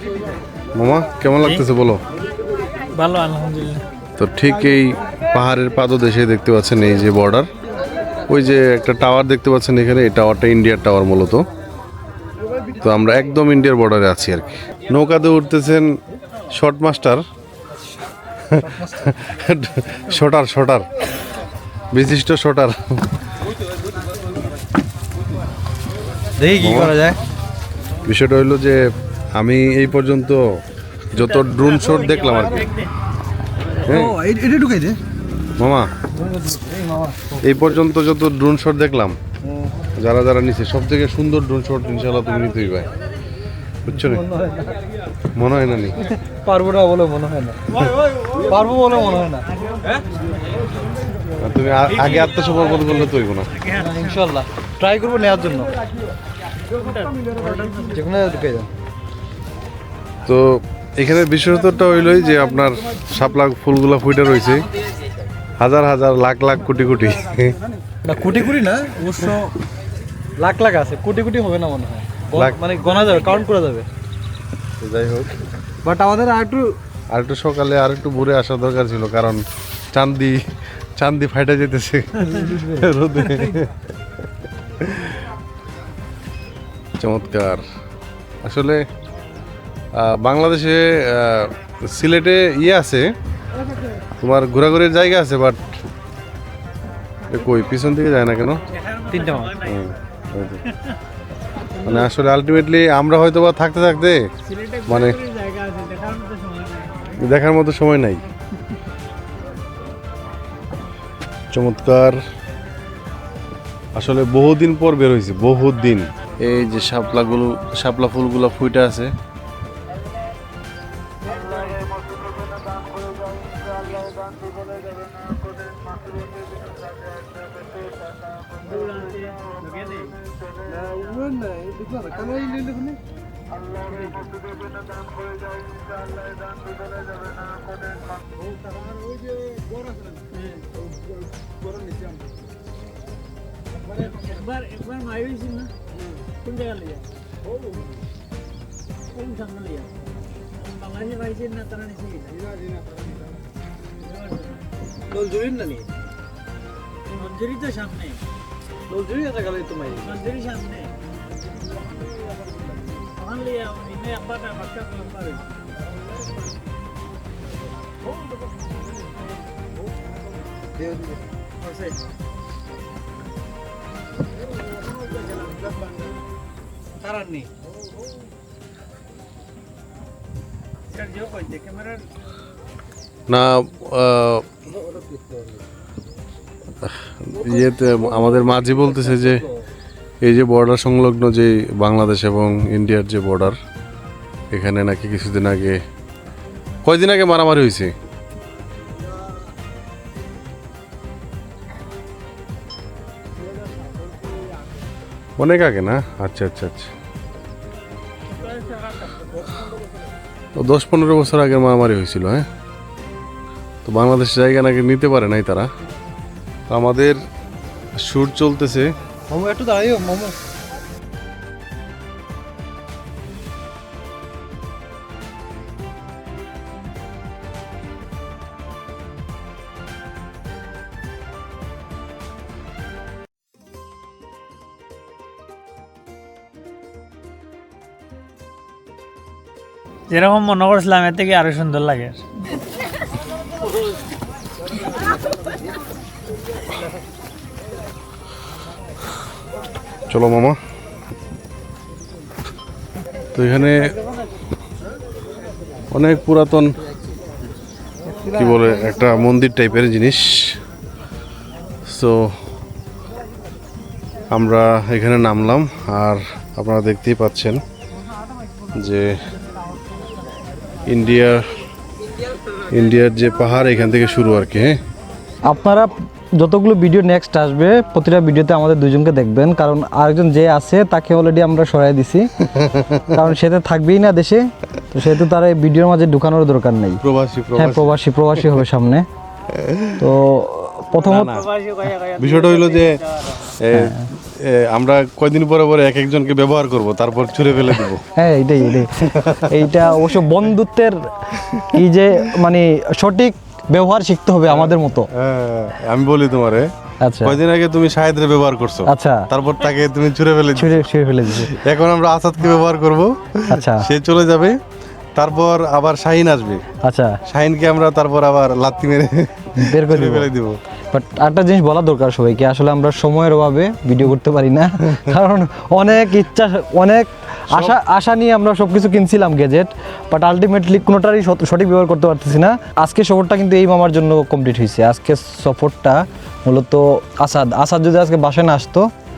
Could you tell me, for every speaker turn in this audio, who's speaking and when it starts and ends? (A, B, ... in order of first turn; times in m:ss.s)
0:00.7-0:02.0 A
0:02.9-0:03.8 B
0:04.2-0:07.5 A
0:08.3-0:11.4 A
0:12.8-0:15.9 A
0:16.5-0:17.2 A
0:18.6-0:19.1 C
0:19.1-0:20.8 A
0:21.9-0:22.7 A
0:26.4-0:27.2 C
0:26.6-0:26.9 A
0:28.0-0:28.8 A
0:29.3-0:30.4 A
0:31.1-0:32.7 A
0:31.2-0:32.9 B
0:33.8-0:34.1 A
0:33.8-0:35.0 C
0:35.6-0:35.9 A
0:36.2-0:37.4 C
0:37.4-0:39.1 A
0:39.4-0:39.7 C
0:40.0-0:42.9 A
0:43.8-0:44.2 A
0:43.9-0:44.7 C
0:45.4-0:46.0 A
0:46.3-0:47.6 C
0:48.4-0:49.4 C
0:49.7-0:50.0 B
0:51.4-0:53.5 A
0:53.5-0:54.2 B
0:53.8-0:55.7 C
0:56.7-0:58.0 B
0:57.9-0:58.7 C
1:00.2-1:04.7 A
1:05.6-1:07.6 A
1:08.0-1:09.5 C
1:10.4-1:13.9 C
1:14.8-1:15.4 A
1:15.8-1:16.7 C
1:17.1-1:20.4 A
1:21.0-1:23.7 A
1:22.2-1:22.9 C
1:24.8-1:25.2 A
1:27.0-1:27.6 A
1:28.4-1:28.8 A
1:29.9-1:33.1 A
1:34.2-1:35.6 A
1:37.3-1:38.6 A
1:38.7-1:39.8 B
1:39.1-1:39.5 C
1:39.6-1:40.6 A
1:40.7-1:40.9 B
1:41.8-1:44.2 A
1:44.4-1:47.2 B
1:44.9-1:45.2 A
1:47.2-1:48.2 A
1:51.5-1:52.2 A
1:53.9-1:59.1 A
2:01.4-2:01.6 B
2:08.6-2:10.2 B
2:10.7-2:13.0 C
2:13.9-2:14.3 B
2:20.3-2:20.6 B
2:23.9-2:25.7 B
2:26.4-2:27.1 B
2:29.1-2:30.0 B
2:30.6-2:32.5 B
2:34.0-2:34.6 B
2:35.1-2:35.9 C
2:37.1-2:38.2 B
2:38.9-2:40.2 C
2:40.0-2:40.9 B
2:43.1-2:45.5 B
2:51.6-2:52.0 B
2:57.0-2:57.5 B
3:00.9-3:02.1 B
3:03.3-3:04.5 A
3:06.8-3:09.4 A
3:10.2-3:13.6 A
3:14.5-3:15.8 A
3:16.8-3:17.9 A
3:25.4-3:26.9 A
3:30.6-3:32.4 A
3:33.8-3:35.7 A
3:36.7-3:37.2 A
3:38.0-3:38.9 A
3:39.3-3:40.4 C
4:00.1-4:02.2 B
4:10.1-4:10.6 A
4:13.3-4:13.9 A
4:15.9-4:16.8 A
4:18.3-4:20.5 A
4:21.9-4:22.4 A
4:24.3-4:27.6 A
4:28.8-4:29.1 A
4:30.9-4:31.4 A
4:32.7-4:34.8 A
4:35.4-4:42.3 C
4:42.5-4:43.2 A
4:43.1-4:47.0 C
4:47.0-4:48.6 A
4:47.6-4:49.0 C
4:49.5-4:50.1 A
4:50.0-4:51.3 C
4:50.9-4:53.4 B
4:51.0-4:51.5 A
4:52.2-4:52.9 A
4:53.6-4:58.0 A
4:58.2-4:58.9 C
4:58.7-5:00.1 A
4:59.5-5:01.0 C
5:01.4-5:01.8 A
5:01.7-5:05.1 C
5:04.5-5:06.7 A
5:07.0-5:07.4 C
5:07.2-5:14.6 A
5:08.9-5:09.2 C
5:10.6-5:11.5 C
5:13.5-5:13.8 C
5:15.2-5:16.6 A
5:16.8-5:17.2 C
5:17.3-5:20.6 A
5:19.6-5:20.2 C
5:20.9-5:38.9 C
5:24.9-5:25.2 A
5:27.5-5:27.8 A